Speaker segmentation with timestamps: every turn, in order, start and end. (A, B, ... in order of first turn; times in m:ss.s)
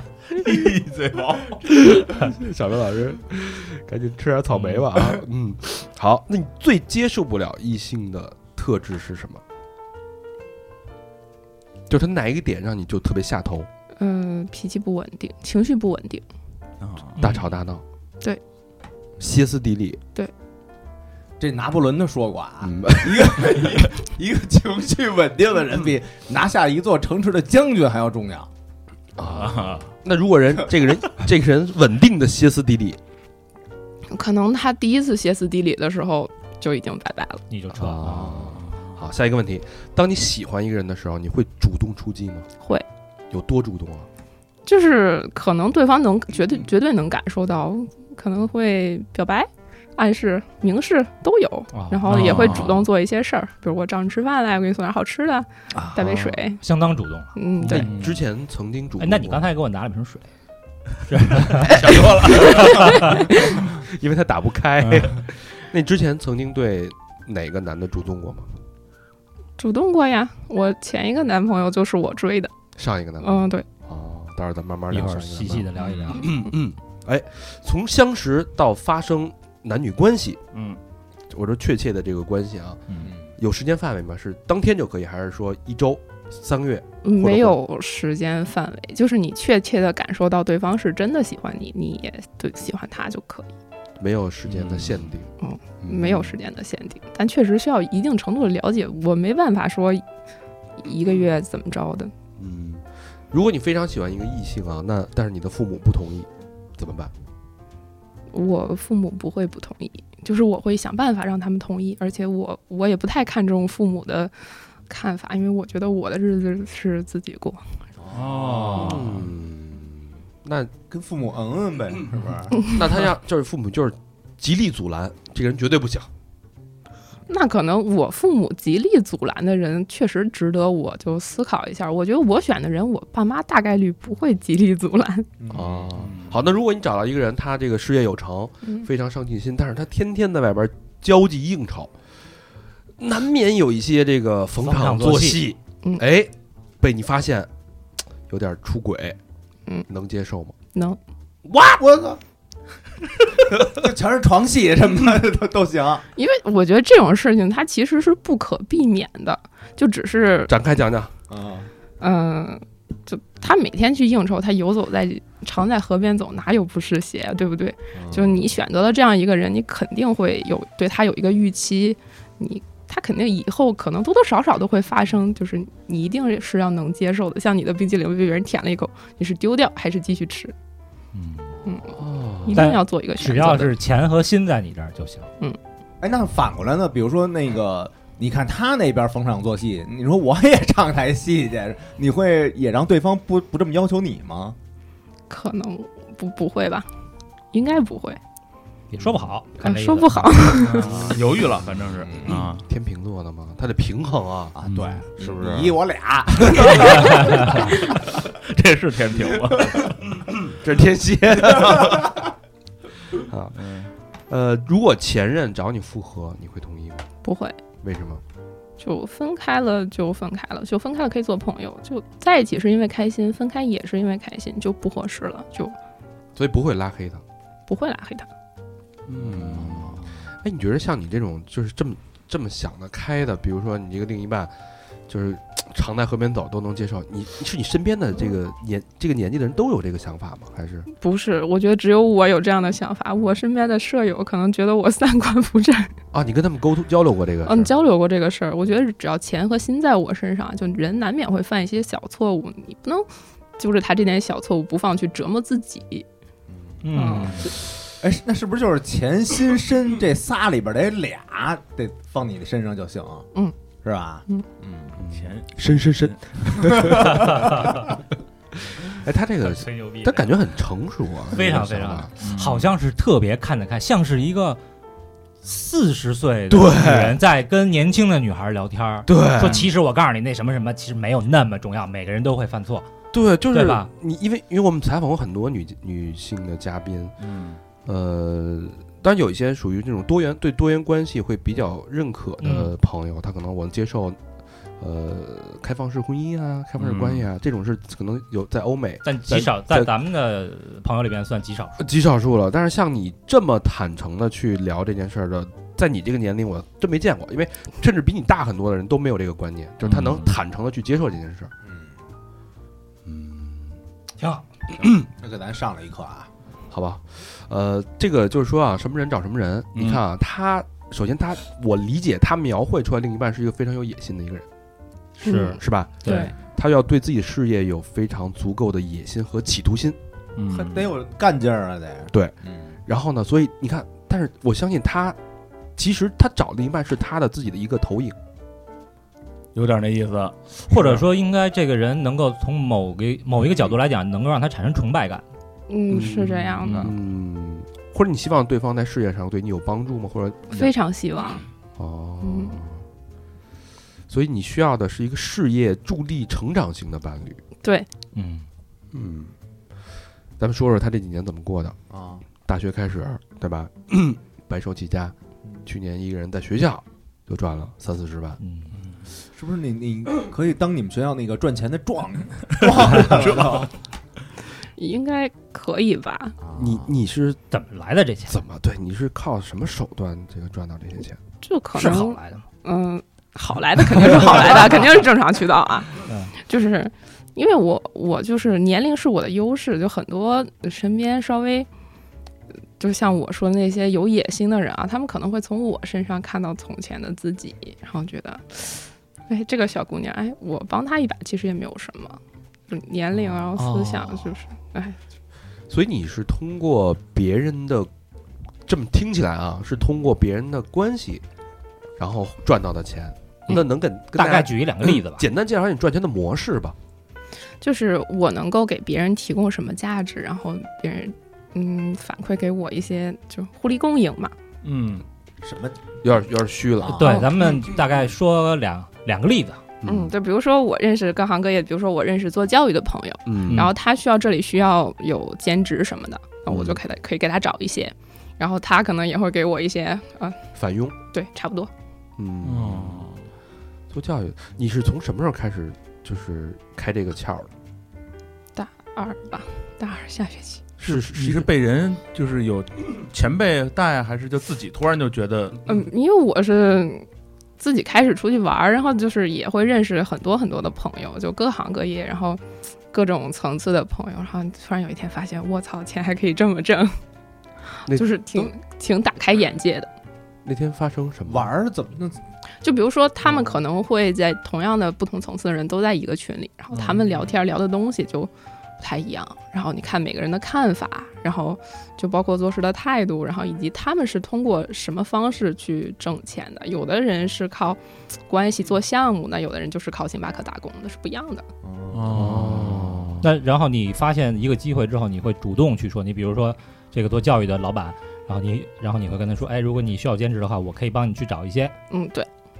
0:00.3-0:01.6 A
0:01.7-0:09.4 B
0:04.5-0:05.0 A
0:11.9-0:13.7 B
0:14.0-0:16.2 C
0:16.8-0:17.4 A
0:17.2-0:17.8 B
0:19.2-0:20.0 B
0:21.4-0:28.5 D
0:22.6-0:23.8 B
0:29.2-0:33.0 B
0:29.3-0:29.9 A
0:34.1-0:37.4 C
0:37.5-0:38.4 E
0:37.7-0:42.5 B
0:38.6-0:38.9 A
0:42.6-0:42.8 C
0:43.3-0:44.1 B
0:44.6-0:56.6 C
0:51.7-0:52.7 E
0:52.1-0:52.8 A
0:55.7-0:56.0 E
0:56.0-0:56.3 B
0:56.6-0:57.9 E
0:57.4-0:57.9 C
0:57.7-0:58.2 A
0:57.7-0:59.5 B
0:59.0-1:00.3 E
1:01.1-1:03.2 E
1:01.6-1:03.0 A
1:03.7-1:08.5 B
1:09.6-1:12.5 C
1:12.8-1:20.4 B
1:13.2-1:13.6 C
1:14.9-1:16.3 E
1:15.8-1:16.2 A
1:20.5-1:20.8 A
1:21.3-1:27.6 B
1:27.0-1:33.5 C
1:34.0-1:36.4 B
1:34.5-1:35.1 A
1:35.4-1:40.0 C
1:40.8-1:42.1 C
1:42.4-1:47.1 B
1:48.3-1:57.6 C
1:58.0-1:59.0 D
1:58.1-1:59.2 A
1:58.7-2:00.7 B
2:00.9-2:02.7 D
2:02.6-2:06.1 B
2:07.3-2:15.3 C
2:15.4-2:15.9 D
2:15.5-2:21.9 B
2:16.0-2:16.3 A
2:23.0-2:27.5 B
2:24.6-2:25.4 E
2:28.3-2:29.2 B
2:29.9-2:30.5 B
2:31.4-2:31.8 B
2:31.8-2:32.2 D
2:33.5-2:36.0 D
2:36.2-2:40.5 C
2:40.5-2:41.1 B
2:41.3-2:41.7 D
2:42.0-3:00.5 C
2:47.9-2:48.4 D
3:01.1-3:01.6 E
3:01.6-3:03.7 C
3:01.9-3:02.6 B
3:02.5-3:05.3 E
3:06.0-3:14.6 D
3:15.3-3:16.9 C
3:17.5-3:18.2 C
3:18.9-3:20.7 E
3:19.6-3:20.8 C
3:20.6-3:22.7 A
3:22.0-3:22.4 D
3:22.2-3:24.5 B
3:24.5-3:27.8 D
3:24.6-3:25.0 A
3:25.2-3:25.8 B
3:26.5-3:26.8 B
3:28.3-3:30.0 A
3:30.4-3:32.1 B
3:33.1-3:33.6 B
3:33.5-3:33.9 A
3:34.3-3:37.1 B
3:37.2-3:37.6 C
3:37.8-3:38.2 B
3:38.8-3:45.8 C
3:46.3-3:47.2 B
3:47.7-3:48.3 C
3:49.1-3:54.5 B
3:49.1-3:50.0 A
3:55.1-4:00.9 B
4:00.9-4:05.9 C
4:06.1-4:07.7 B
4:07.4-4:16.1 C
4:16.5-4:16.8 D
4:16.8-4:17.5 E
4:16.9-4:17.5 C
4:17.9-4:23.3 D
4:23.8-4:25.0 D
4:25.0-4:27.5 B
4:25.1-4:26.2 A
4:26.6-4:26.8 D
4:27.1-4:27.9 E
4:28.8-4:32.1 B
4:29.5-4:30.3 E
4:31.3-4:34.6 E
4:32.2-4:32.7 A
4:35.4-4:42.8 E
4:36.5-4:37.2 B
4:39.1-4:39.6 B
4:43.1-4:47.1 B
4:43.5-4:43.9 E
4:47.2-4:47.6 A
4:47.8-4:54.2 B
4:52.4-4:52.7 E
4:54.8-4:59.9 B
4:56.8-4:57.2 A
4:59.0-5:01.9 E
5:01.8-5:11.5 B
5:09.8-5:10.4 A
5:11.6-5:11.9 D
5:13.0-5:13.8 B
5:14.2-5:14.4 E
5:14.8-5:16.3 D
5:16.7-5:24.4 B
5:19.7-5:20.0 A
5:25.2-5:26.3 E
5:25.2-5:26.3 C
5:25.3-5:30.0 B
5:30.4-5:30.9 A
5:30.5-5:32.8 D
5:32.8-5:35.2 B
5:35.8-5:38.2 B
5:39.5-5:41.0 A
5:40.7-5:45.2 E
5:45.7-5:46.9 C
5:45.9-5:50.7 B
5:50.5-5:51.4 C
5:51.8-5:52.8 B
5:52.2-5:52.6 C
5:54.1-5:57.4 B
5:58.1-5:58.4 E
5:58.9-5:59.3 B
6:00.4-6:01.8 B
6:01.9-6:02.2 D
6:02.4-6:08.4 B
6:08.4-6:08.7 E
6:09.3-6:13.7 D
6:13.1-6:13.6 A
6:14.8-6:16.4 C
6:16.4-6:16.9 D
6:16.5-6:17.4 B
6:17.5-6:18.4 E
6:18.3-6:21.2 B
6:21.4-6:31.7 C
6:21.7-6:22.4 E
6:26.0-6:26.3 E
6:32.8-6:45.0 C
6:45.7-6:47.9 B
6:48.7-6:51.2 B
6:52.0-6:56.8 B
6:54.1-6:55.2 E
6:57.6-7:04.3 C
7:04.6-7:05.0 A
7:05.4-7:05.8 D
7:06.0-7:07.0 B
7:06.9-7:09.6 E
7:07.0-7:07.5 C
7:09.8-7:10.1 B
7:09.8-7:20.4 C
7:13.2-7:13.7 B
7:13.4-7:13.7 E
7:16.5-7:16.8 B
7:20.5-7:21.0 B
7:21.1-7:21.7 C
7:22.2-7:23.0 B
7:22.4-7:23.3 A
7:23.9-7:27.5 B
7:28.5-7:30.6 C
7:30.8-7:31.4 B
7:30.8-7:35.6 A
7:30.9-7:31.3 E
7:35.7-7:37.1 C
7:37.6-7:47.0 C
7:47.9-7:48.5 B
7:47.9-7:49.9 C
7:50.4-7:51.5 B
7:51.3-7:52.2 D
7:52.6-8:11.4 C
8:11.6-8:12.5 D
8:11.9-8:13.2 A
8:12.1-8:13.2 B
8:13.2-8:21.7 E
8:21.9-8:22.3 C